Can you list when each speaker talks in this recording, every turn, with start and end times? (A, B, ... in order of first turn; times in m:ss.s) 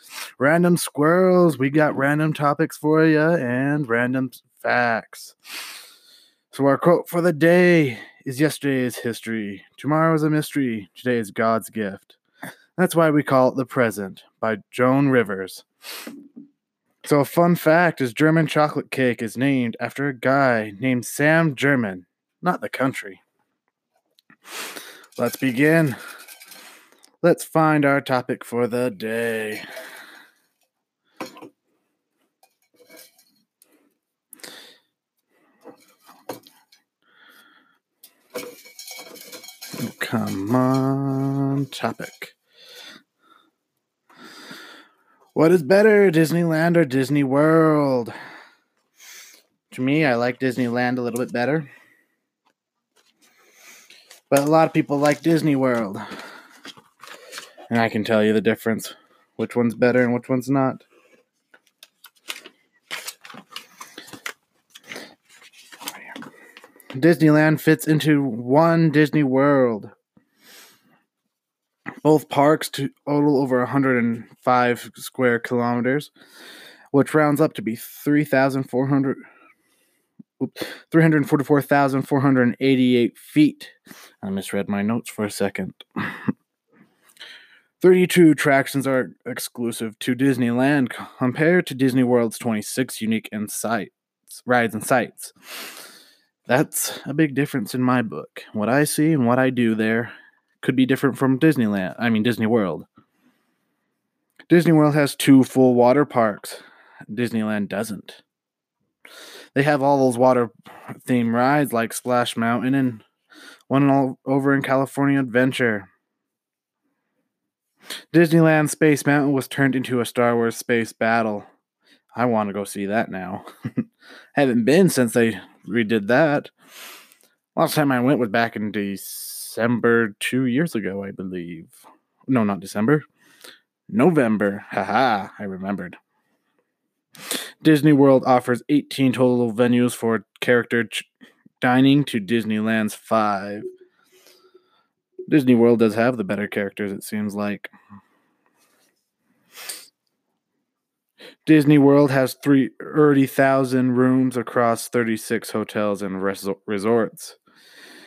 0:00.4-0:05.3 A
0:06.5-0:12.2 A
0:12.8-0:15.6 A
0:17.0-0:23.2 A
0:25.2-0:26.0 A
0:27.2-0:29.6 A
0:39.8-0:42.4 A
0:45.3-0:48.1 A
0:49.7-0:51.7 A
0:54.3-0:56.0 A
0:57.7-1:00.8 A
1:06.9-1:09.9 A
1:12.0-1:16.1 A
1:16.9-1:19.2 A
1:20.4-1:26.3 A
1:27.8-1:35.3 A
1:36.5-1:42.9 A
1:44.5-1:48.2 A
1:49.5-1:53.0 A
1:53.7-1:55.9 A
1:58.1-2:01.5 A
2:02.1-2:03.8 A
2:04.3-2:06.5 A
2:07.5-2:13.0 A
2:13.9-2:16.0 A
2:17.3-2:21.1 A
2:21.6-2:23.7 A
2:25.3-2:27.7 A
2:31.4-2:37.4 A